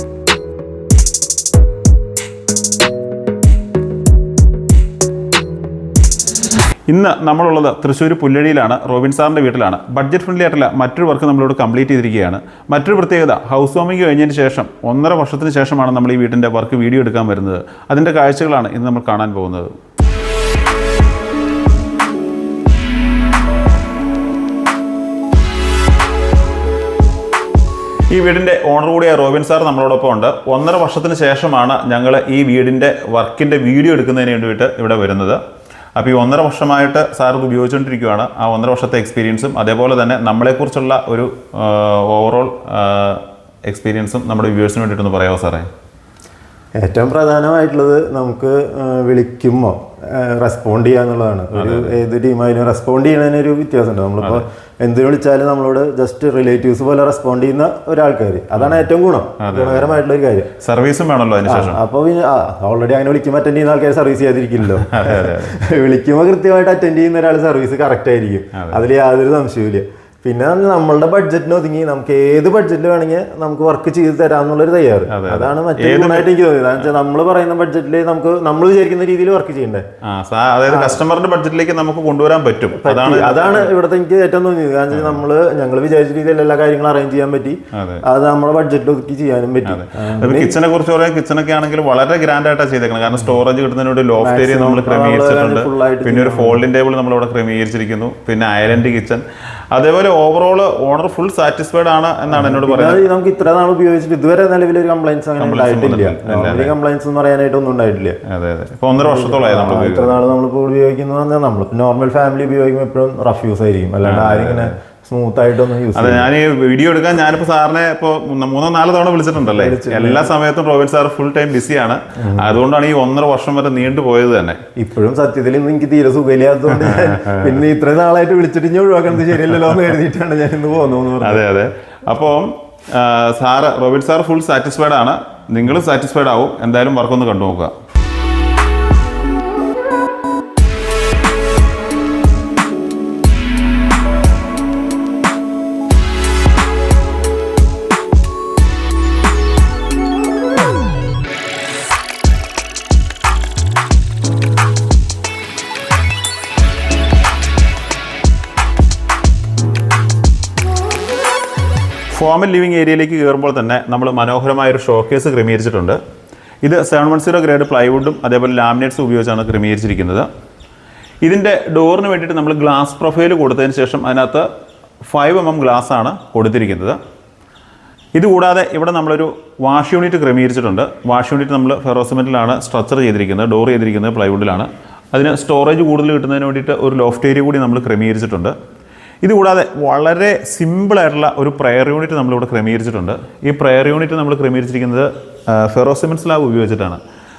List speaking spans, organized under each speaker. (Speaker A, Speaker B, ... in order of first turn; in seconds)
Speaker A: 6.9-19.7, 28.1-35.4, 36.0-45.7, 51.5-52.0, 59.4-60.0, 60.6-61.8, 64.8-65.5, 68.5-68.8, 75.1-76.3, 80.0-83.7, 87.7-88.0, 89.7-103.0, 105.4-106.7, 108.2-110.2, 114.0-114.7, 115.9-124.6, 126.8-127.5, 131.2-137.7, 162.1-166.0, 166.6-170.3, 171.2-174.5, 175.1-177.0, 178.2-188.5, 189.2-197.0
Speaker B: 46.8-60.5, 61.5-79.8, 80.7-81.0, 82.7-90.6, 94.2-96.7, 102.3-108.2, 109.0-116.3, 119.5-120.3, 124.8-131.4